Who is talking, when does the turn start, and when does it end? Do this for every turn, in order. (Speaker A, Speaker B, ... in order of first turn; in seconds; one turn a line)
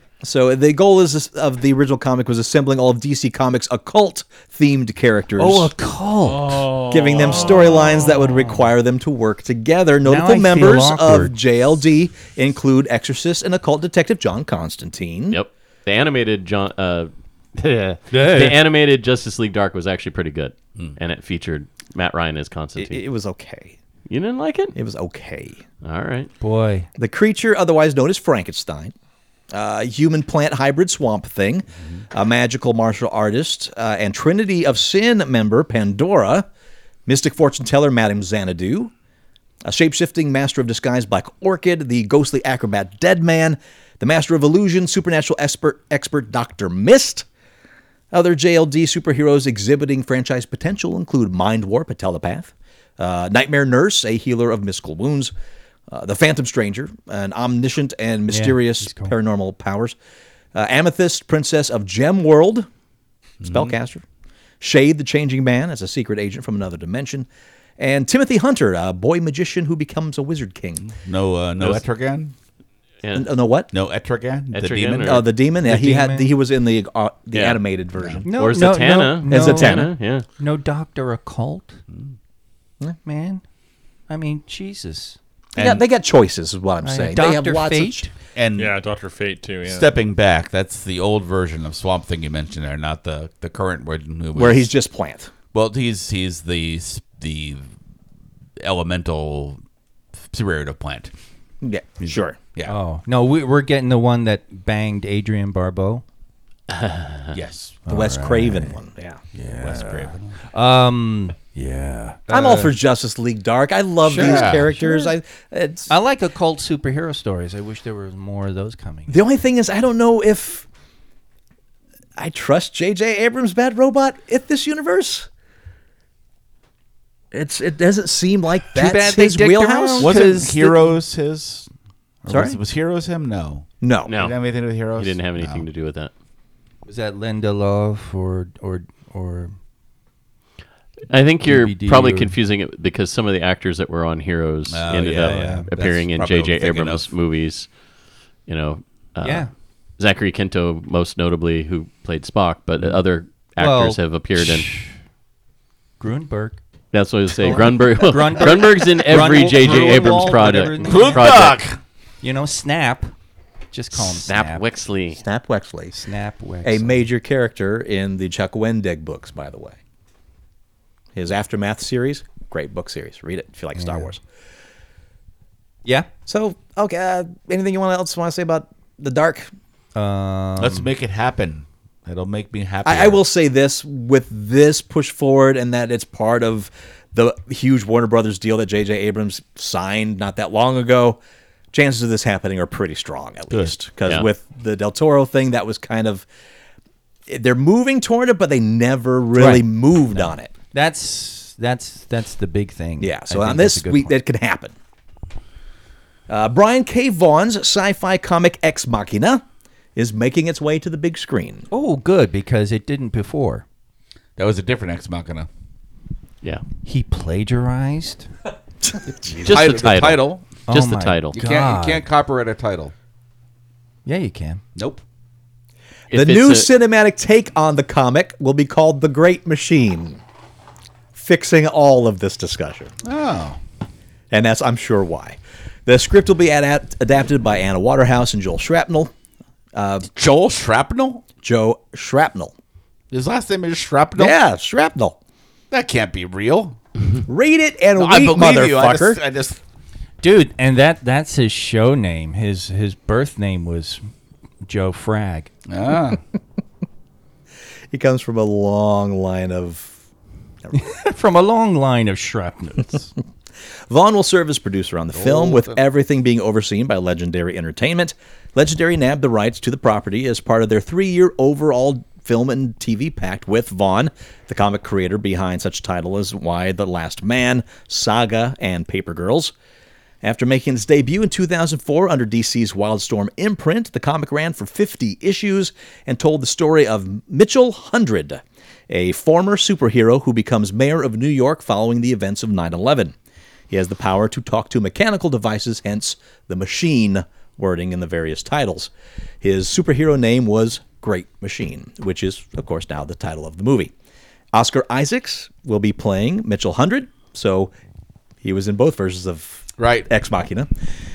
Speaker A: 0.2-5.7
Speaker B: 5.4-6.7
Speaker C: 6.2-8.4
Speaker A: 6.8-15.4
Speaker B: 10.0-11.3
Speaker D: 15.3-23.0
Speaker B: 18.1-18.6
Speaker A: 22.8-23.8
Speaker D: 24.1-24.8
Speaker A: 24.8-25.6
Speaker D: 25.8-26.3
Speaker B: 26.4-26.9
Speaker A: 27.0-28.9
Speaker A: 29.5-36.5
Speaker A: 37.1-38.9
Speaker A: 39.7-47.3
Speaker A: 48.1-55.3
Speaker A: 55.9-60.0
Speaker B: 58.3-59.1
Speaker A: 60.5-62.7
Speaker E: 63.4-63.7
Speaker A: 63.4-64.0
Speaker A: 64.6-67.3
Speaker A: 67.8-70.9
Speaker E: 70.9-72.3
Speaker D: 73.0-73.3
Speaker A: 73.1-73.7
Speaker E: 73.7-75.2
Speaker D: 74.5-75.3
Speaker A: 75.0-78.4
Speaker B: 75.7-76.3
Speaker D: 77.3-77.6
Speaker B: 78.2-81.8
Speaker D: 78.3-80.3
Speaker A: 79.3-79.9
Speaker B: 83.0-83.4
Speaker B: 84.1-85.2
Speaker A: 85.6-88.1
Speaker E: 85.6-85.8
Speaker B: 86.8-88.1
Speaker E: 88.3-88.7
Speaker C: 88.6-89.9
Speaker E: 89.7-94.7
Speaker A: 94.3-95.3
Speaker E: 95.5-97.6
Speaker E: 98.6-99.6
Speaker E: 100.3-101.1
Speaker A: 101.6-102.4
Speaker B: 102.7-106.0
Speaker D: 106.7-107.3
Speaker E: 107.3-107.8
Speaker B: 107.9-108.8
Speaker A: 107.9-109.2
Speaker B: 109.3-112.8
Speaker E: 109.6-110.4
Speaker A: 112.3-115.9
Speaker B: 114.0-115.1
Speaker E: 114.2-114.6
Speaker B: 115.9-119.2
Speaker A: 119.1-120.7
Speaker A: 122.2-125.3
Speaker A: 127.3-130.4
Speaker B: 128.8-130.8
Speaker E: 130.0-131.7
Speaker E: 132.3-135.7
Speaker A: 132.3-132.6
Speaker A: 133.8-134.1
Speaker D: 134.1-136.1
Speaker B: 136.9-139.6
Speaker D: 141.1-147.7
Speaker B: 141.4-142.3
Speaker E: 144.7-147.1
Speaker B: 145.2-145.7
Speaker D: 148.5-149.5
Speaker B: 149.2-149.5
Speaker D: 150.0-154.7
Speaker B: 153.6-154.9
Speaker B: 156.0-156.6
Speaker D: 156.9-161.6
Speaker B: 157.4-161.4
Speaker A: 159.5-160.2
Speaker E: 160.8-161.8
Speaker B: 162.2-163.1
Speaker B: 163.7-164.6
Speaker D: 164.0-165.2
Speaker A: 165.2-166.0
Speaker B: 165.9-167.0
Speaker A: 166.6-169.8
Speaker A: 171.2-174.2
Speaker B: 173.8-174.1
Speaker A: 176.3-179.5
Speaker B: 179.9-180.9
Speaker E: 180.6-183.2
Speaker A: 182.8-191.2
Speaker A: 191.7-196.2
Speaker A: 197.3-200.5
Speaker B: 199.3-199.7
Speaker B: 200.2-204.1
Speaker A: 203.0-204.7
Speaker A: 206.3-209.4
Speaker A: 210.0-211.7
Speaker B: 211.7-213.6
Speaker E: 214.4-215.5
Speaker B: 216.8-218.3
Speaker A: 218.8-219.8
Speaker E: 219.1-220.4
Speaker D: 219.5-221.4
Speaker B: 220.7-222.0
Speaker E: 221.3-222.9
Speaker B: 224.1-224.6
Speaker E: 224.8-225.0
Speaker D: 226.1-226.7
Speaker A: 226.1-230.2
Speaker A: 231.1-232.9
Speaker E: 233.0-233.6
Speaker A: 234.3-239.1
Speaker A: 239.7-240.1
Speaker E: 240.1-241.2
Speaker A: 241.4-242.5
Speaker E: 243.1-244.4
Speaker A: 244.2-245.2
Speaker E: 245.7-246.8
Speaker A: 247.3-249.2
Speaker E: 248.0-249.6
Speaker B: 250.2-254.1
Speaker B: 254.7-255.5
Speaker E: 255.7-256.2
Speaker A: 257.9-260.0
Speaker B: 260.7-263.1
Speaker A: 263.9-279.5
Speaker E: 265.1-265.8
Speaker A: 280.2-293.1
Speaker A: 293.7-303.9
Speaker A: 304.5-307.7
Speaker A: 308.4-310.7
Speaker E: 309.8-310.1